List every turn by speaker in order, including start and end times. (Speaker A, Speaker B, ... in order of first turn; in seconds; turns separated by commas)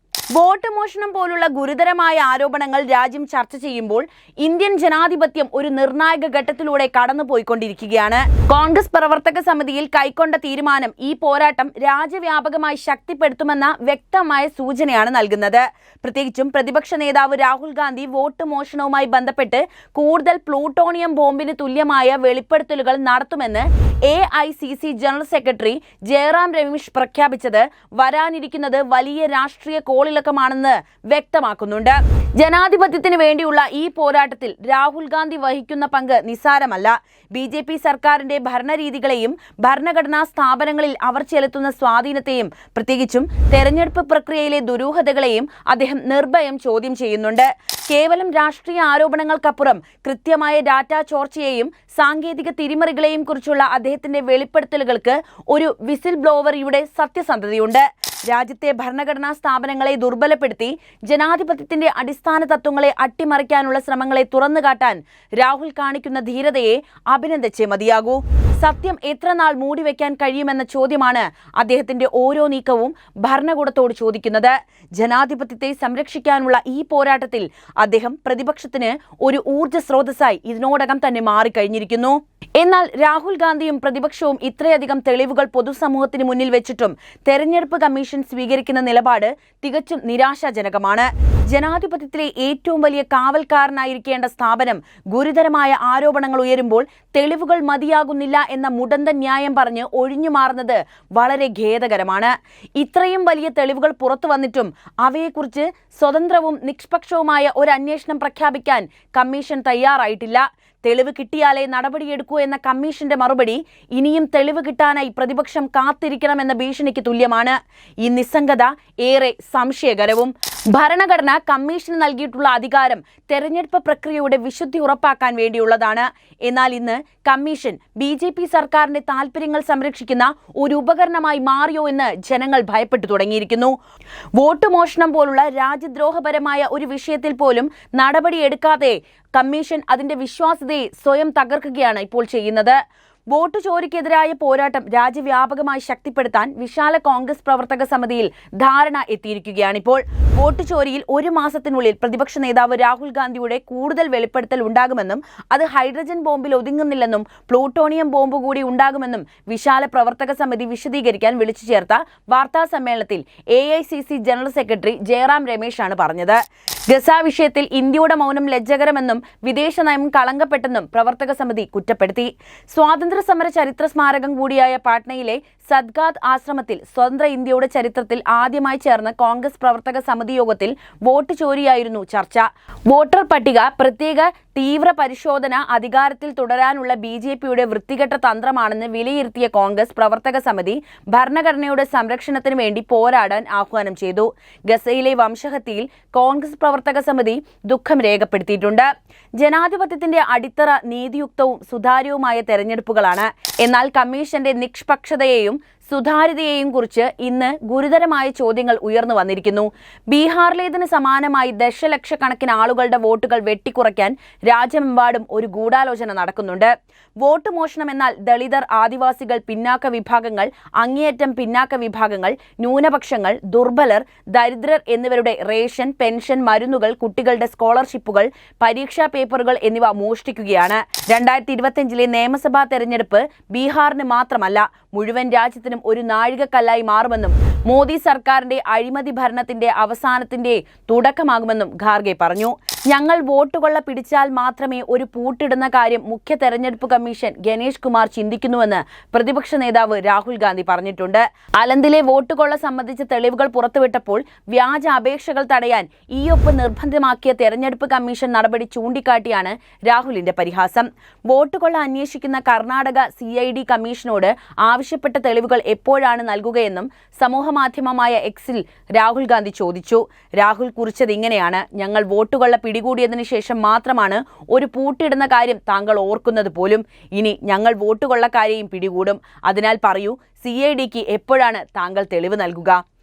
Speaker A: 0.3-133.7, Speaker A: 134.4-142.8, Speaker A: 143.3-198.9, Speaker A: 199.4-282.8